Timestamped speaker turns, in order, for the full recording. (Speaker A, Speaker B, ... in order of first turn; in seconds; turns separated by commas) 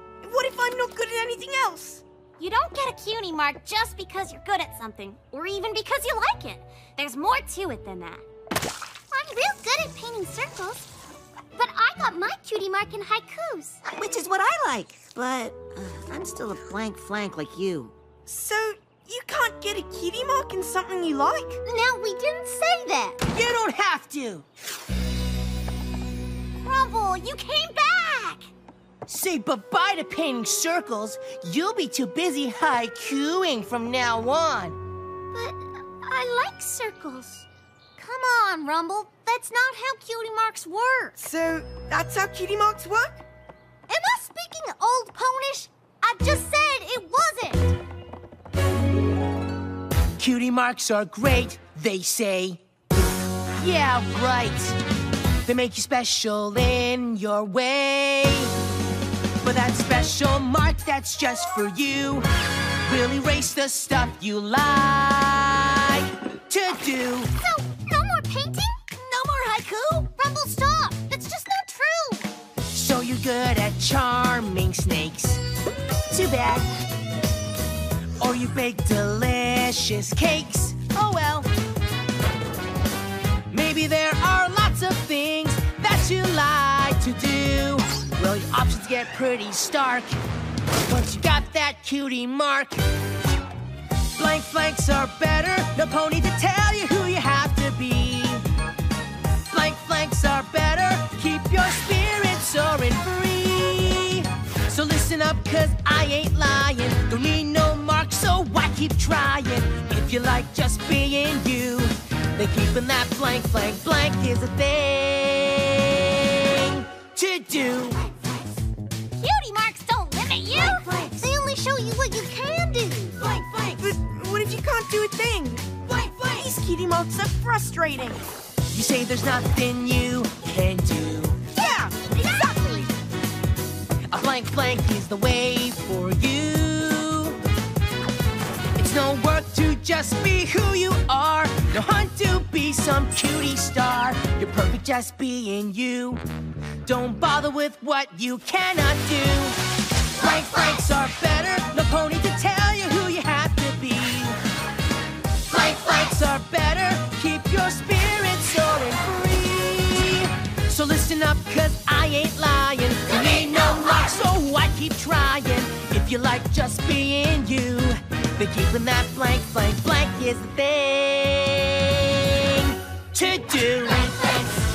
Speaker A: 0.2-2.0, Speaker B: 2.4-8.2, Speaker B: 9.1-10.9, Speaker B: 11.5-13.8, Speaker C: 13.9-17.9, Speaker A: 18.3-21.6, Speaker B: 21.6-23.2, Speaker D: 23.3-24.4, Speaker B: 26.6-28.4, Speaker D: 29.1-34.8, Speaker B: 35.3-37.5, Speaker B: 38.0-41.1, Speaker A: 41.2-43.2, Speaker B: 43.9-47.8, Speaker D: 50.2-52.6, Speaker D: 53.6-54.8, Speaker D: 55.5-58.5, Speaker D: 59.4-62.2, Speaker D: 62.8-67.3, Speaker B: 67.3-72.2, Speaker D: 72.7-75.4, Speaker D: 76.1-76.7, Speaker D: 78.2-81.5, Speaker D: 83.5-90.2, Speaker D: 90.9-92.8, Speaker D: 94.2-98.4, Speaker D: 99.5-118.0, Speaker B: 119.2-123.2, Speaker D: 120.5-121.3, Speaker D: 123.2-123.8, Speaker A: 123.8-125.8, Speaker D: 125.8-126.5, Speaker A: 126.3-128.2, Speaker D: 128.7-131.4, Speaker A: 131.5-132.5, Speaker B: 131.6-132.9, Speaker D: 134.1-137.3, Speaker D: 138.8-146.2, Speaker D: 146.8-149.6, Speaker D: 150.1-154.4, Speaker D: 155.5-174.1